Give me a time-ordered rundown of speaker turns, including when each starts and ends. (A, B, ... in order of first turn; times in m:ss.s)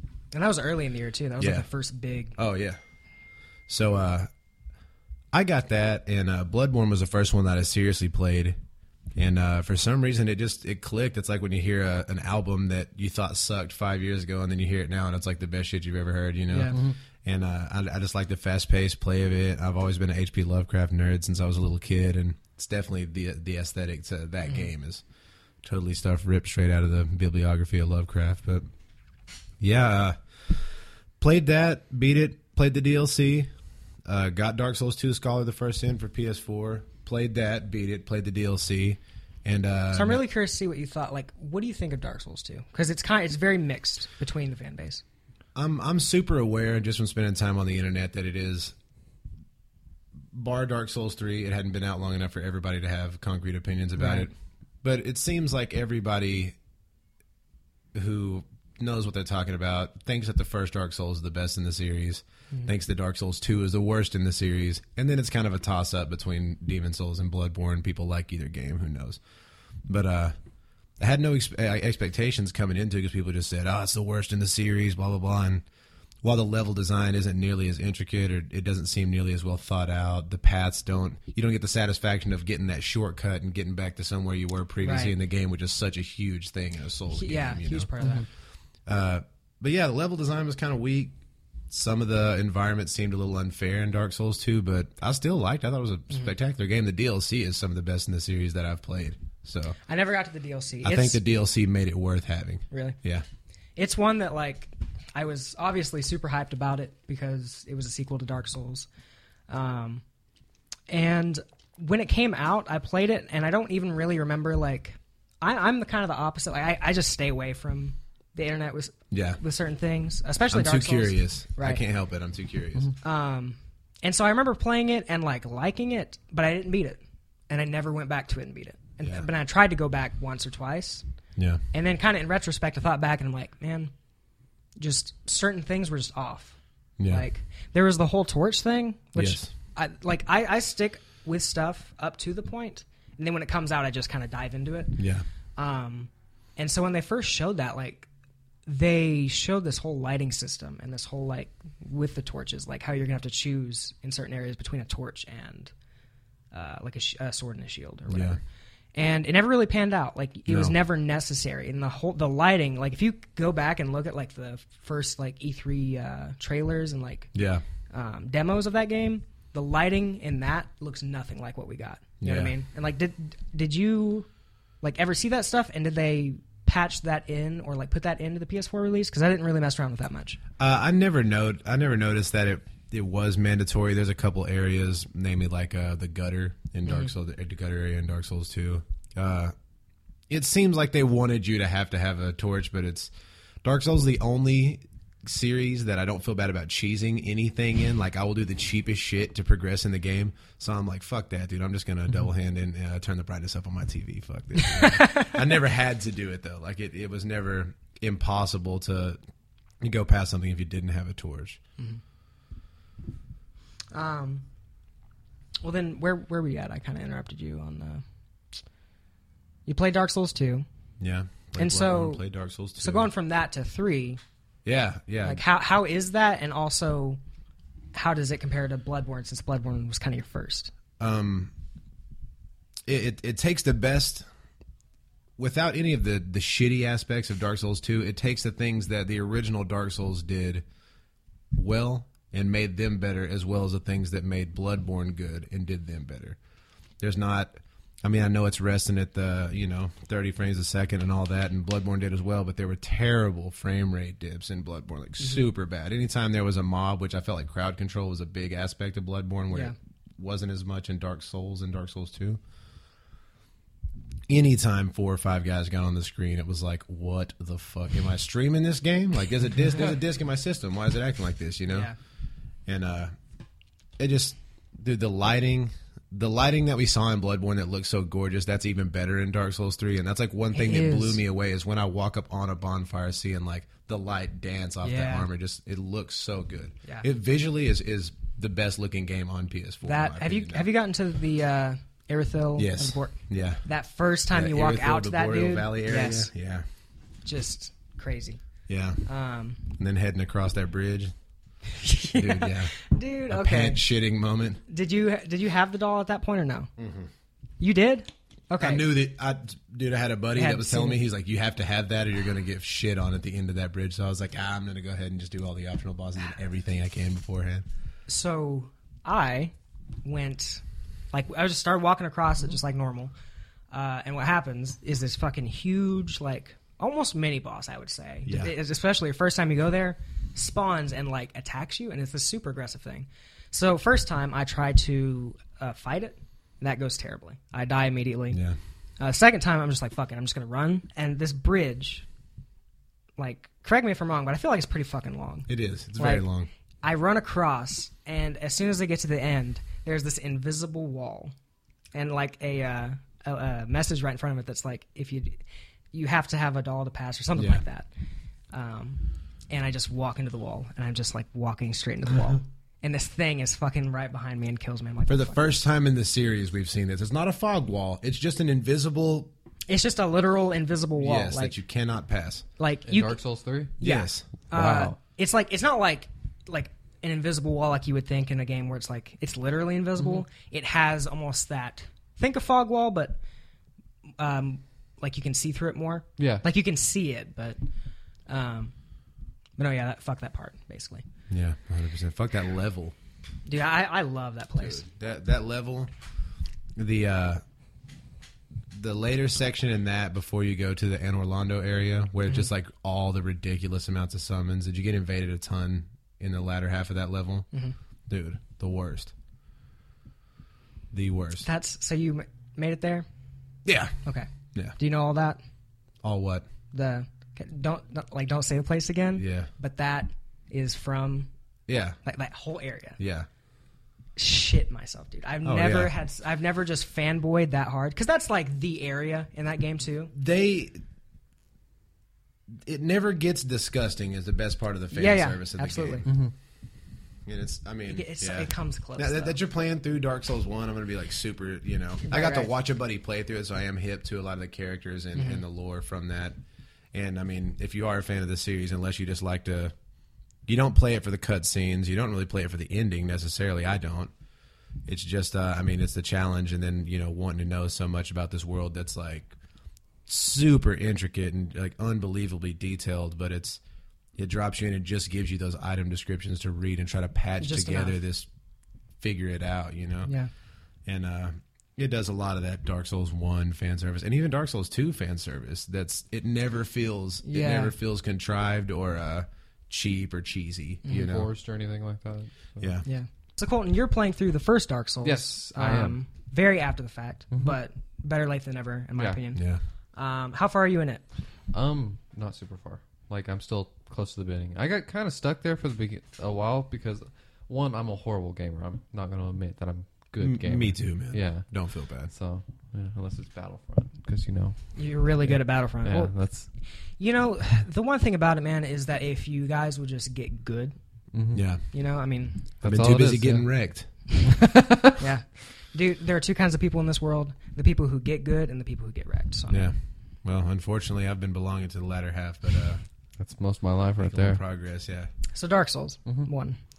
0:00.3-0:02.4 A
0:01.4-0:01.6 B
0:02.4-0:02.8 B
0:03.7-0:04.3 B
0:05.3-0:08.6 B
0:09.1-0:25.0 B
0:16.5-0:16.8 A
0:16.7-0:17.0 C
0:25.6-0:28.6 B
0:29.6-0:30.6 B
0:31.2-0:33.5 B
0:34.0-0:40.2 B
0:39.9-0:45.0 A
0:45.5-0:48.7 B
0:50.3-0:56.5 B
0:54.0-0:54.3 A
0:57.9-1:09.2 B
1:09.9-1:10.3 B
1:11.0-1:15.6 B
1:16.2-1:27.9 B
1:24.8-1:25.1 A
1:27.1-1:28.2 A
1:28.8-1:31.2 B
1:31.7-1:39.8 B
1:39.8-1:41.2 A
1:40.8-1:43.2 B
1:42.7-1:43.0 A
1:43.8-1:48.9 A
1:49.5-1:50.0 A
1:50.9-2:01.8 A
1:59.1-1:59.4 B
2:00.5-2:02.9 B
2:03.0-2:11.0 A
2:11.4-2:11.6 B
2:11.7-2:13.9 A
2:14.8-2:25.0 A
2:17.0-2:17.2 B
2:19.2-2:19.5 B
2:25.0-2:25.2 B
2:25.6-2:28.1 A
2:28.7-2:35.7 A
2:36.5-2:38.4 A
2:38.1-2:38.4 B
2:38.9-2:47.3 A
2:40.5-2:40.7 B
2:47.3-2:47.6 B
2:47.9-2:54.3 A
2:52.2-2:52.5 B
2:54.8-3:00.4 A
3:00.6-3:09.5 B
3:06.9-3:07.1 A
3:10.3-3:13.1 B
3:13.6-3:29.2 B
3:24.6-3:25.3 A
3:29.8-3:31.6 B
3:33.9-3:34.4 A
3:35.6-3:38.0 A
3:39.6-3:40.6 A
3:41.0-3:43.1 B
3:41.6-3:42.2 A
3:42.8-3:44.2 A
3:44.6-3:45.4 B
3:45.2-3:47.2 A
3:47.9-3:50.7 A
3:51.0-3:51.5 B
3:52.8-3:54.2 B
3:55.4-4:00.6 B
4:01.5-4:06.4 B
4:07.0-4:22.4 B
4:24.3-4:31.9 B
4:31.7-4:32.0 A
4:32.6-4:33.1 B
4:34.0-4:50.7 B
4:40.5-4:41.2 A
4:44.8-4:45.3 A
4:49.8-4:56.3 A
4:52.6-4:53.6 B
4:54.3-4:56.6 B
4:57.2-4:58.4 A
4:58.7-4:59.1 B
4:59.0-4:59.6 A
4:59.7-5:01.1 B
5:01.7-5:03.8 A
5:02.1-5:02.8 B
5:03.3-5:04.6 B
5:04.7-5:06.7 A
5:06.8-5:07.1 B
5:07.6-5:08.9 A
5:08.6-5:17.6 B
5:10.3-5:11.0 A
5:18.1-5:19.5 A
5:20.0-5:23.1 A
5:23.7-5:38.4 A
5:28.2-5:28.5 B
5:38.3-5:38.6 B
5:39.0-5:42.0 A
5:43.2-5:46.2 A
5:45.5-5:46.5 B
5:46.8-5:51.3 A
5:51.9-5:57.9 A
5:57.4-5:57.6 B
5:58.5-6:05.6 A
6:05.0-6:09.3 B
6:09.7-6:11.6 A
6:11.0-6:12.4 B
6:12.6-6:13.2 A
6:12.8-6:13.8 C
6:13.8-6:23.2 A
6:13.8-6:14.2 B
6:14.5-6:15.0 C
6:24.2-6:27.6 A
6:26.2-6:26.4 C
6:28.3-6:28.7 A
6:29.6-6:31.0 A
6:31.3-6:32.9 B
6:33.4-6:34.8 A
6:34.6-6:35.9 B
6:36.8-6:37.4 B
6:38.7-6:47.4 B
6:48.1-6:49.1 B
6:50.9-6:51.5 B
6:51.4-6:53.0 A
6:53.6-6:54.0 B
6:54.0-6:55.4 A
6:56.0-6:56.4 B
6:56.7-7:01.3 A
6:59.2-6:59.5 B
7:01.7-7:02.0 B
7:02.0-7:03.0 A
7:03.0-7:03.3 B
7:04.2-7:10.1 A
7:05.4-7:05.9 B
7:10.1-7:10.8 B
7:12.6-7:16.0 B
7:14.9-7:16.1 A
7:16.0-7:16.3 C
7:17.2-7:26.4 B
7:17.9-7:19.4 A
7:22.0-7:22.5 A
7:25.1-7:25.4 A
7:26.9-7:29.7 B
7:30.4-7:34.1 B
7:34.8-7:39.3 B
7:40.1-7:43.6 B
7:44.2-7:48.3 B
7:47.4-7:48.0 A
7:49.0-7:50.1 B
7:50.0-7:50.3 A
7:50.8-8:01.3 B
7:57.2-7:57.7 A
8:00.9-8:02.8 C
8:02.6-8:02.8 B
8:02.8-8:11.0 A
8:05.0-8:06.0 C
8:09.3-8:09.6 B
8:11.5-8:21.5 C
8:20.2-8:22.1 B
8:22.1-8:26.5 C
8:24.7-8:26.1 A
8:27.0-8:30.7 A
8:31.1-8:31.5 C
8:31.3-8:31.6 B
8:31.7-8:32.5 A
8:32.6-8:33.5 C
8:32.6-8:33.9 B
8:34.2-8:35.0 C
8:35.0-8:39.7 A
8:39.5-8:42.8 B
8:43.2-8:44.4 C
8:44.0-8:45.1 B
8:45.3-8:46.6 A
8:46.0-8:46.3 C